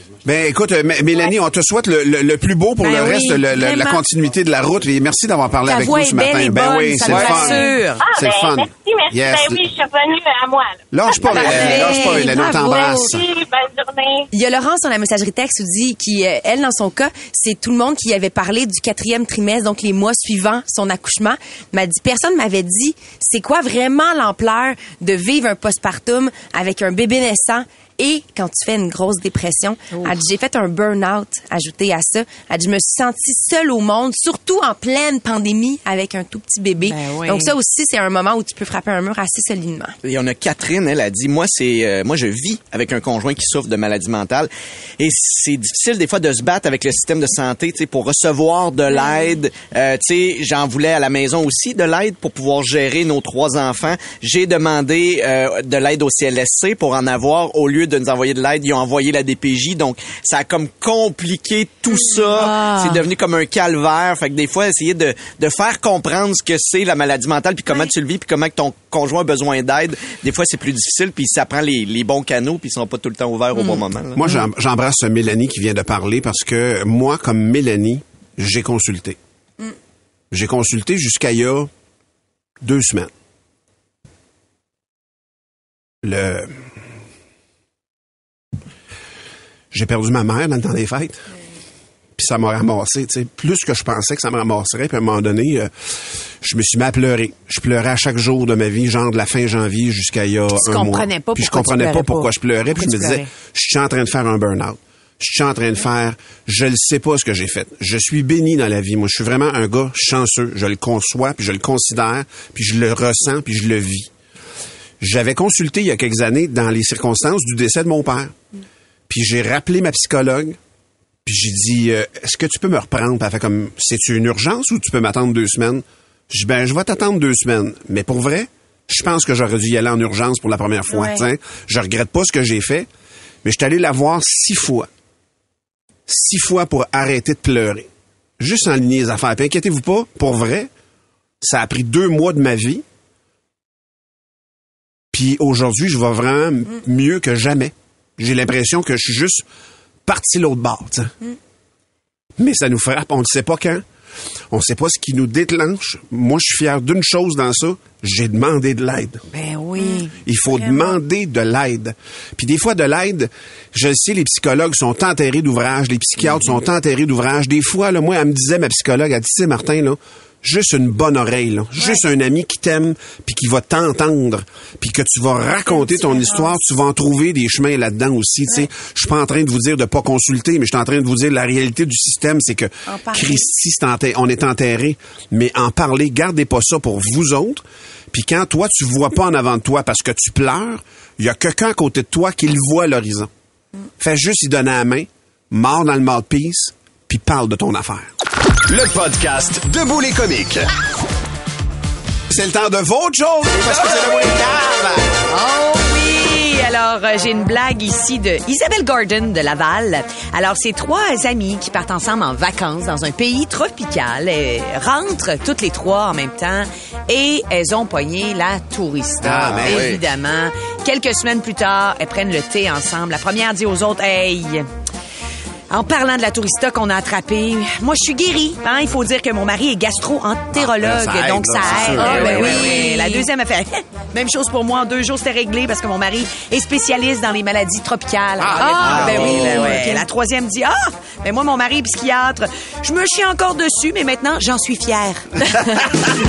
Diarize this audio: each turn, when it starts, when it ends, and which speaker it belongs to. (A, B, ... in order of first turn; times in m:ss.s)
0:00.2-0:09.6 A
0:02.8-0:04.0 B
0:05.6-0:08.0 C
0:07.1-0:07.8 B
0:08.0-0:12.2 D
0:10.9-0:13.2 A
0:11.2-0:13.1 B
0:13.0-0:14.3 D
0:14.3-0:40.0 B
0:36.8-0:37.5 C
0:40.0-1:14.2 E
1:02.5-1:02.9 C
1:14.2-1:19.2 A
1:20.3-1:21.7 A
1:22.6-1:23.1 A
1:26.0-1:26.6 A
1:29.7-1:31.2 A
1:32.2-1:35.7 A
1:36.4-1:54.1 A
1:40.5-1:43.3 C
1:55.0-1:58.3 A
1:59.1-2:00.6 A
2:01.2-2:12.9 A
2:10.9-2:11.2 B
2:13.4-2:14.9 A
2:16.1-2:20.7 A
2:21.4-2:22.8 A
2:25.1-2:29.4 A
2:30.1-2:31.1 A
2:32.4-2:33.8 A
2:34.5-2:39.2 A
2:39.3-2:40.1 C
2:39.8-2:41.0 B
2:40.2-3:13.3 A
2:55.7-2:56.5 B
3:02.9-3:03.4 B
3:14.0-3:18.1 A
3:18.7-3:20.7 F
3:22.3-3:25.1 A
3:25.3-3:44.7 C
3:39.2-3:39.9 A
3:39.4-3:40.0 E
3:45.7-4:05.3 C
3:50.5-3:52.7 A
3:51.8-3:53.3 B
3:52.1-3:52.6 E
3:58.4-3:59.7 A
3:58.6-4:00.0 B
3:58.8-4:00.0 E